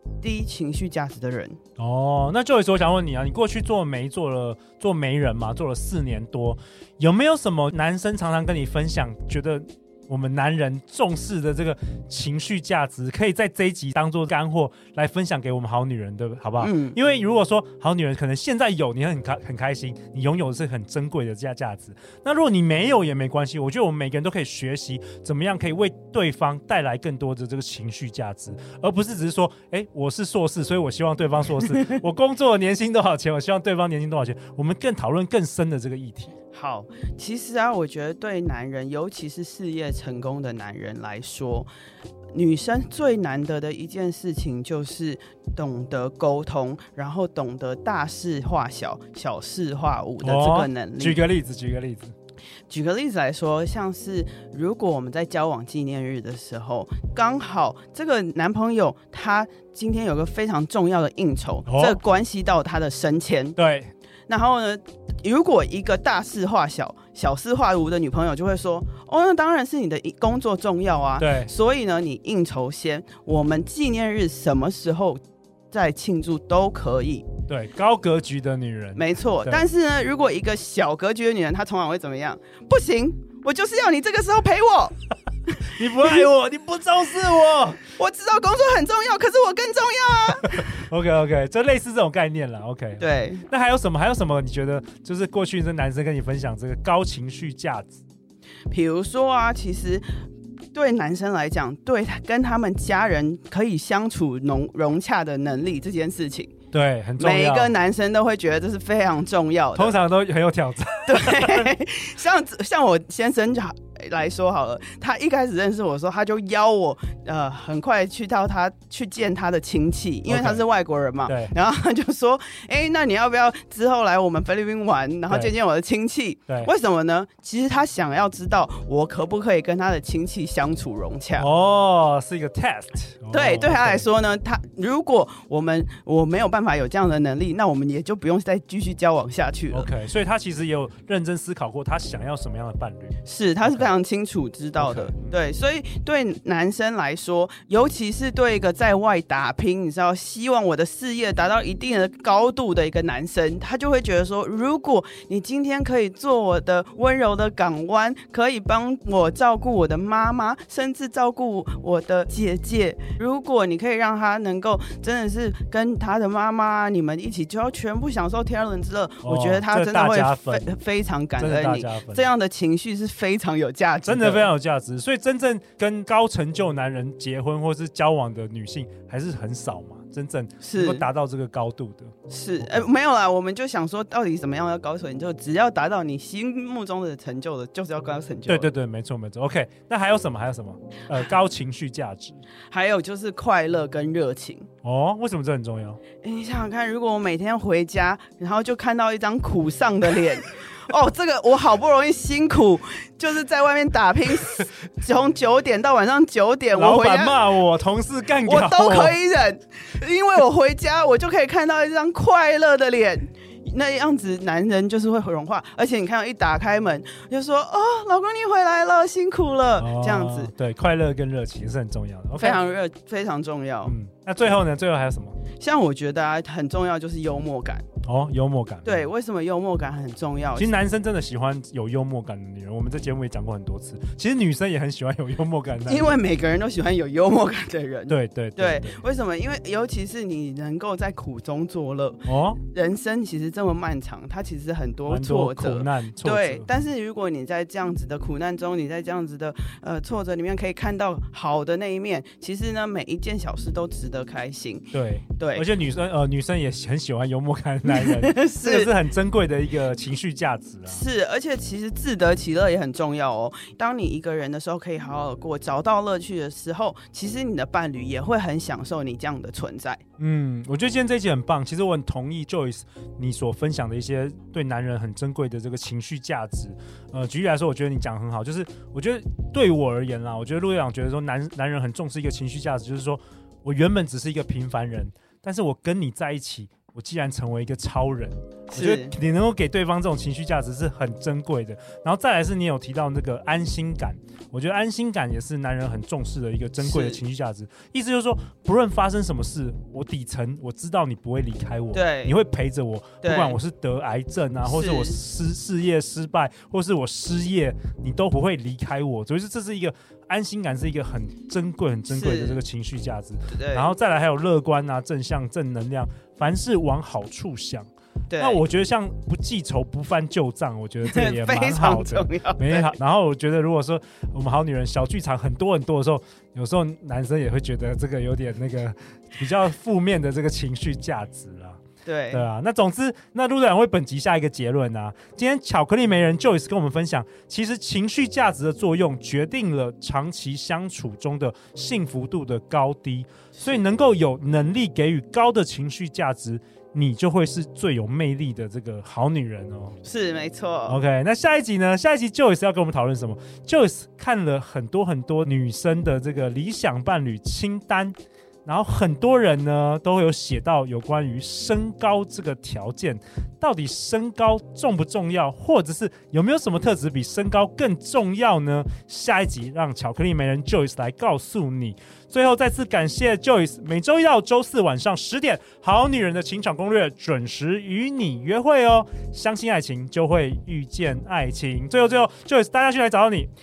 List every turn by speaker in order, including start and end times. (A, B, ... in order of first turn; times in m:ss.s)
0:00.2-0:01.6 A
0:01.8-0:36.3 B
0:16.6-0:17.0 A
0:36.5-0:41.7 A
0:42.3-0:51.2 A
0:50.2-0:52.1 B
0:52.7-1:03.6 A
1:01.7-1:02.0 B
1:03.6-1:03.9 B
1:04.3-1:15.2 A
1:11.2-1:11.5 B
1:15.7-1:17.3 A
1:17.5-1:19.6 B
1:19.0-1:24.9 A
1:25.7-1:27.9 B
1:28.0-1:30.7 A
1:30.6-1:38.0 B
1:33.0-1:33.4 A
1:38.7-1:40.0 A
1:40.7-1:46.5 A
1:46.7-1:47.7 B
1:47.2-1:50.0 A
1:49.8-1:51.7 B
1:51.1-2:11.5 A
2:00.3-2:00.6 B
2:01.3-2:01.5 B
2:11.4-2:14.1 B
2:13.3-2:19.9 A
2:19.7-2:23.9 B
2:23.3-2:54.5 A
2:24.8-2:25.3 B
2:49.2-2:50.7 B
2:51.4-2:52.3 B
2:54.1-3:02.8 B
3:00.6-3:01.0 A
3:02.3-3:08.7 A
3:08.5-3:12.4 B
3:12.7-3:14.7 A
3:14.8-3:16.0 B
3:16.2-3:27.4 A
3:26.7-3:29.2 B
3:28.4-3:40.5 A
3:39.8-3:42.6 B
3:42.4-3:43.9 A
3:43.8-3:45.4 B
3:45.6-3:47.8 A
3:48.0-3:49.1 B
3:48.8-3:50.7 A
3:50.6-3:56.2 B
3:55.9-4:15.7 A
3:58.1-3:59.0 B
4:02.3-4:02.6 B
4:05.1-4:06.7 B
4:14.9-4:21.0 B
4:17.8-4:18.9 A
4:20.9-4:30.0 A
4:30.2-5:50.0 B
4:48.7-4:49.1 A
4:56.8-4:57.2 A
5:01.9-5:02.4 A
5:03.2-5:03.6 A
5:04.6-5:05.2 A
5:12.1-5:12.6 A
5:13.5-5:13.9 A
5:18.3-5:18.6 A
5:21.0-5:23.0 A
5:32.0-5:32.4 A
5:50.0-5:51.0 A
5:50.9-5:58.2 B
5:58.7-6:23.5 B